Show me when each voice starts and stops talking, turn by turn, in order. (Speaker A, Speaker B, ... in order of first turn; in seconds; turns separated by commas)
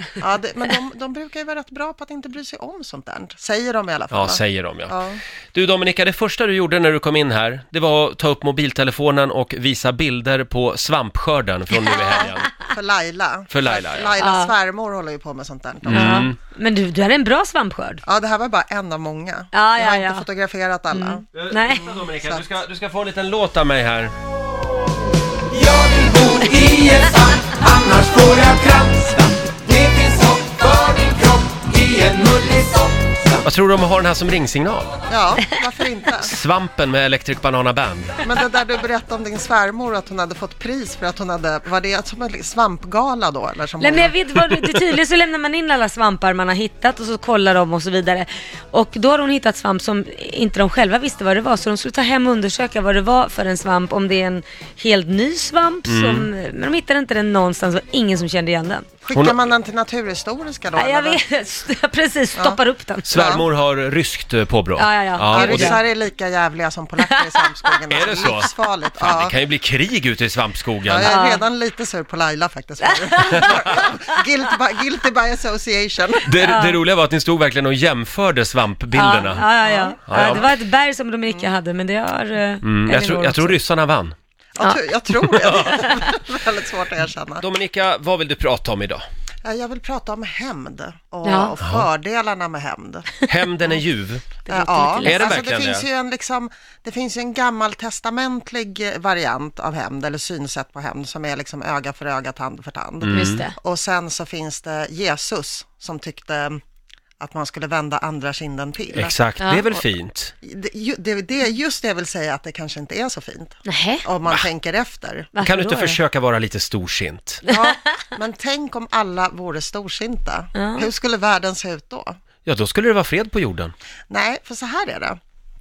Speaker A: 0.2-5.2, Speaker B: 4.1-5.0, Speaker B: 5.5-12.5, Speaker A: 12.0-16.3, Speaker B: 13.5-14.1, Speaker C: 14.2-14.5, Speaker B: 15.8-16.4, Speaker C: 15.9-18.0, Speaker A: 18.0-22.4, Speaker C: 19.5-20.2, Speaker C: 20.9-21.9, Speaker B: 21.3-24.1, Speaker D: 25.5-33.2, Speaker B: 33.4-34.9, Speaker A: 35.1-36.3, Speaker B: 36.2-38.2, Speaker A: 38.2-44.1, Speaker C: 43.8-58.9, Speaker B: 55.9-56.3, Speaker A: 59.0-61.2, Speaker B: 59.1-59.4, Speaker C: 60.8-63.2, Speaker B: 63.0-65.8, Speaker A: 63.1-63.5, Speaker C: 64.8-65.8, Speaker A: 65.3-69.3, Speaker C: 67.0-68.5, Speaker B: 67.9-71.1, Speaker A: 70.8-76.3, Speaker C: 71.0-71.5, Speaker C: 72.8-73.9, Speaker B: 76.2-79.5, Speaker C: 76.4-76.8, Speaker C: 78.9-83.6, Speaker A: 79.6-80.4, Speaker B: 80.0-80.5, Speaker B: 82.6-84.1, Speaker A: 84.5-87.4, Speaker C: 85.3-86.2, Speaker B: 87.4-89.0, Speaker A: 89.4-93.1, Speaker C: 91.2-91.5, Speaker B: 91.6-91.8, Speaker B: 93.3-94.3, Speaker C: 94.5-95.4, Speaker A: 94.5-106.6, Speaker B: 95.0-95.9, Speaker B: 103.0-103.4, Speaker C: 103.1-103.5, Speaker A: 107.2-109.2, Speaker B: 108.9-110.3, Speaker C: 109.4-109.6, Speaker A: 110.4-115.3, Speaker C: 113.7-114.0, Speaker C: 115.3-116.0, Speaker B: 115.4-117.4, Speaker A: 117.5-122.1, Speaker C: 117.5-117.8, Speaker C: 120.5-120.9, Speaker B: 122.5-123.7, Speaker A: 124.1-125.2